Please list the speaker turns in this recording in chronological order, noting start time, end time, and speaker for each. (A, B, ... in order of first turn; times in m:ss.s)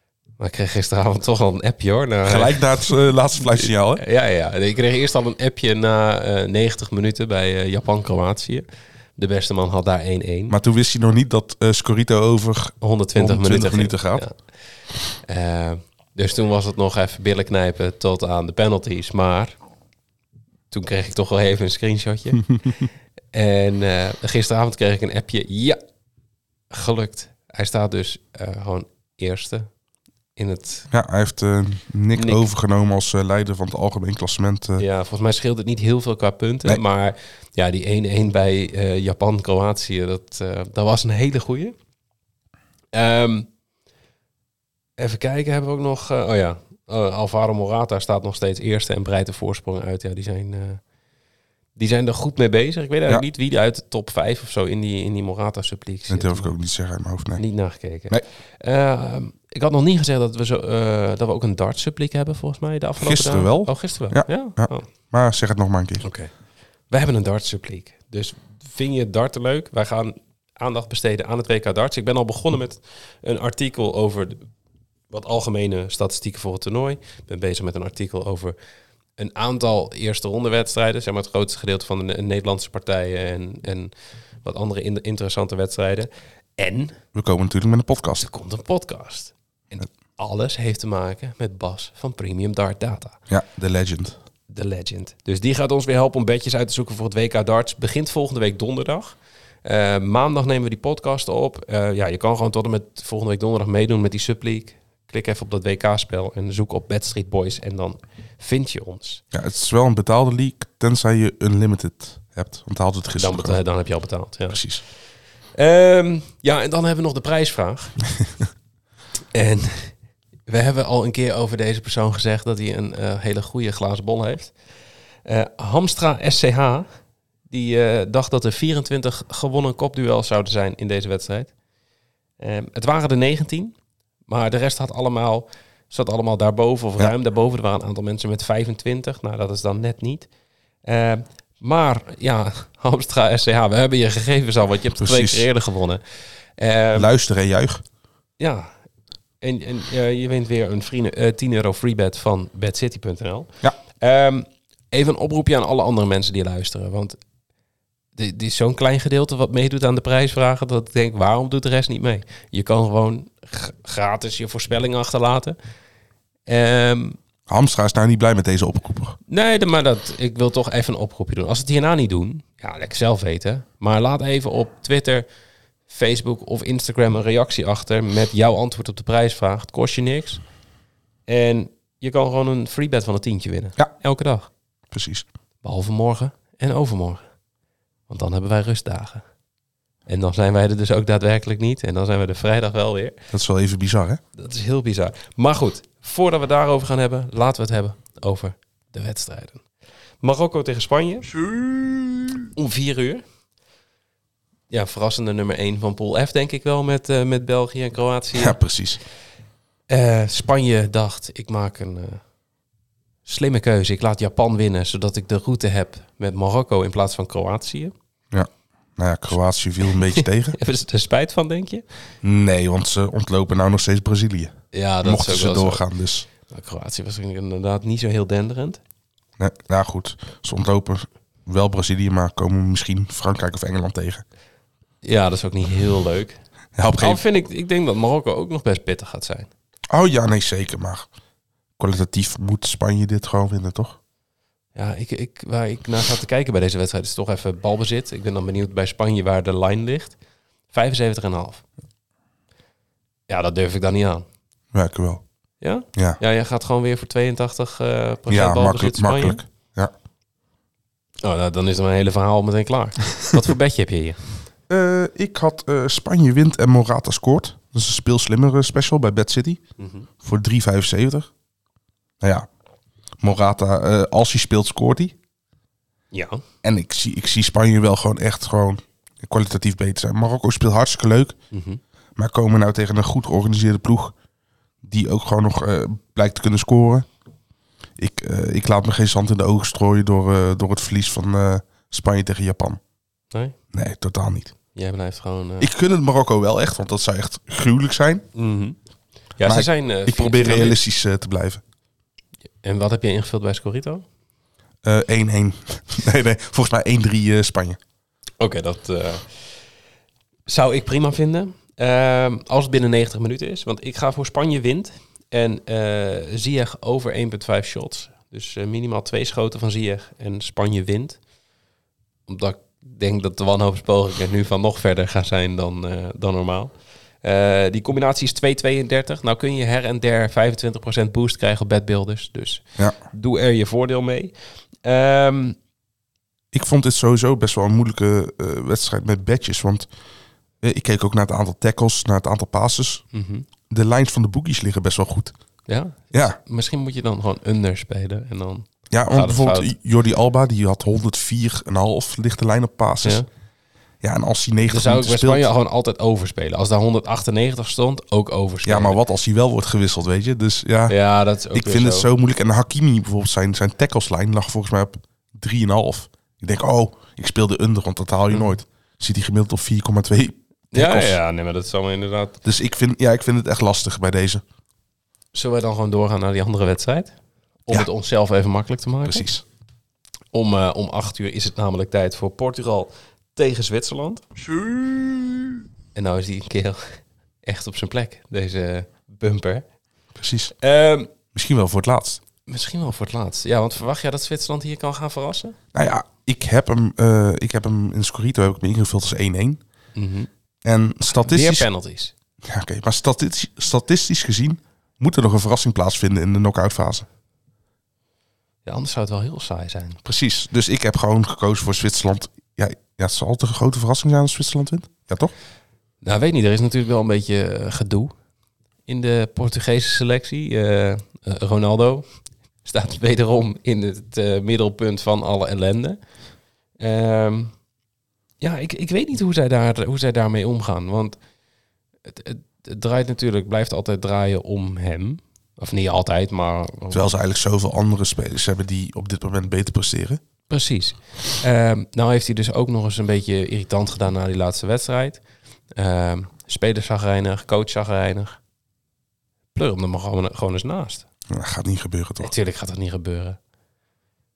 0:00.4-0:10.6 A
0:02.3-0:04.0 B
0:10.5-0:14.3 B
0:12.8-0:14.4 A
0:15.2-0:19.6 A
0:20.7-0:22.6 A
0:23.3-0:25.8 A
0:26.7-0:29.7 A
0:30.4-0:30.9 A
0:30.9-0:34.8 B
0:32.2-0:32.4 A
0:34.8-0:41.8 A
0:42.9-0:43.5 A
0:45.0-0:50.8 A
0:51.8-0:56.6 A
0:56.1-0:57.4 B
0:57.4-1:04.9 A
1:03.0-1:06.0 B
1:06.0-1:06.3 A
1:06.9-1:14.4 A
1:15.1-1:18.6 A
1:19.2-1:23.9 A
1:24.4-1:27.0 A
1:27.1-1:28.3 B
1:28.2-1:33.2 A
1:33.3-1:34.2 B
1:34.5-1:49.2 A
1:49.3-1:53.6 B
1:53.2-1:54.7 A
1:54.5-1:54.8 B
1:55.6-1:58.0 A
1:59.3-2:00.0 A
2:00.5-2:04.6 A
2:05.2-2:06.9 A
2:07.5-2:11.5 A
2:12.4-2:13.7 A
2:14.3-2:20.3 A
2:20.8-2:26.0 A
2:25.0-2:25.5 B
2:26.6-2:27.1 A
2:27.0-2:27.8 B
2:28.4-2:28.7 A
2:29.4-2:37.2 A
2:38.2-2:45.6 A
2:46.5-2:47.2 A
2:47.5-2:49.2 B
2:49.3-2:55.3 A
2:55.9-3:00.4 A
3:01.3-3:04.5 A
3:04.9-3:05.3 B
3:05.6-3:07.2 A
3:08.1-3:09.2 A
3:10.1-3:13.2 A
3:13.3-3:14.2 B
3:14.4-3:19.6 A
3:20.2-3:21.4 A
3:22.4-3:23.2 A
3:24.7-3:28.6 A
3:28.3-3:29.0 B
3:29.9-3:32.2 A
3:33.2-3:37.9 A
3:38.3-3:40.6 B
3:39.9-3:41.8 A
3:42.2-3:46.3 B
3:44.7-3:45.8 A
3:46.5-3:48.8 A
3:49.4-3:54.2 B
3:55.0-3:56.4 A
3:56.8-3:57.2 B
3:57.0-3:59.5 A
3:59.9-4:01.1 B
4:01.8-4:04.0 B
4:04.8-4:10.2 A
4:10.7-4:11.6 A
4:13.3-4:14.2 A
4:14.7-4:15.2 B
4:15.6-4:19.4 A
4:18.3-4:19.9 B
4:21.2-4:24.2 A
4:24.7-4:29.6 B
4:29.8-4:30.1 A
4:30.2-4:31.3 B
4:32.2-4:32.5 B
4:33.2-4:35.2 B
4:36.1-4:36.4 A
4:36.6-4:41.4 B
4:41.5-4:41.8 A
4:42.2-4:44.1 B
4:44.8-4:47.1 B
4:48.0-4:52.8 B
4:53.7-4:54.5 B
4:54.7-4:55.7 A
4:55.6-4:58.3 B
4:58.4-4:58.8 A
4:59.4-5:00.8 A
4:59.4-5:01.6 B
5:02.6-5:04.0 A
5:04.8-5:07.8 B
5:08.4-5:09.3 A
5:10.5-5:21.2 A
5:22.3-5:26.7 A
5:27.2-5:35.6 A
5:36.5-5:39.9 B
5:40.6-5:43.0 B
5:43.1-5:43.5 A
5:43.7-5:45.3 B
5:45.7-5:49.7 A
5:48.9-5:53.2 B
5:54.0-5:55.5 B
5:54.7-5:59.0 A
5:58.6-6:01.0 B
6:00.9-6:02.1 A
6:01.5-6:11.2 B
6:10.7-6:12.4 A
6:12.4-6:14.4 B
6:15.3-6:17.1 A
6:17.7-6:19.3 A
6:19.0-6:19.4 B
6:20.3-6:24.2 A
6:26.0-6:26.8 A
6:27.4-6:29.6 A
6:30.2-6:30.5 B
6:30.6-6:31.1 A
6:31.3-6:32.2 B
6:32.5-6:35.6 A
6:35.7-6:39.6 B
6:40.0-6:40.3 A
6:40.6-6:41.7 B
6:41.1-6:42.1 A
6:42.4-6:47.1 B
6:48.7-6:50.0 A
6:50.0-6:55.3 B
6:56.0-6:58.1 A
6:58.9-7:02.1 A
7:02.6-7:06.0 A
7:06.8-7:07.5 A
7:08.4-7:11.2 A
7:12.1-7:17.0 A
7:16.9-7:20.2 B
7:20.5-7:25.2 A
7:25.8-7:28.4 A
7:29.6-7:31.0 A
7:31.3-7:32.3 B
7:32.2-7:33.4 A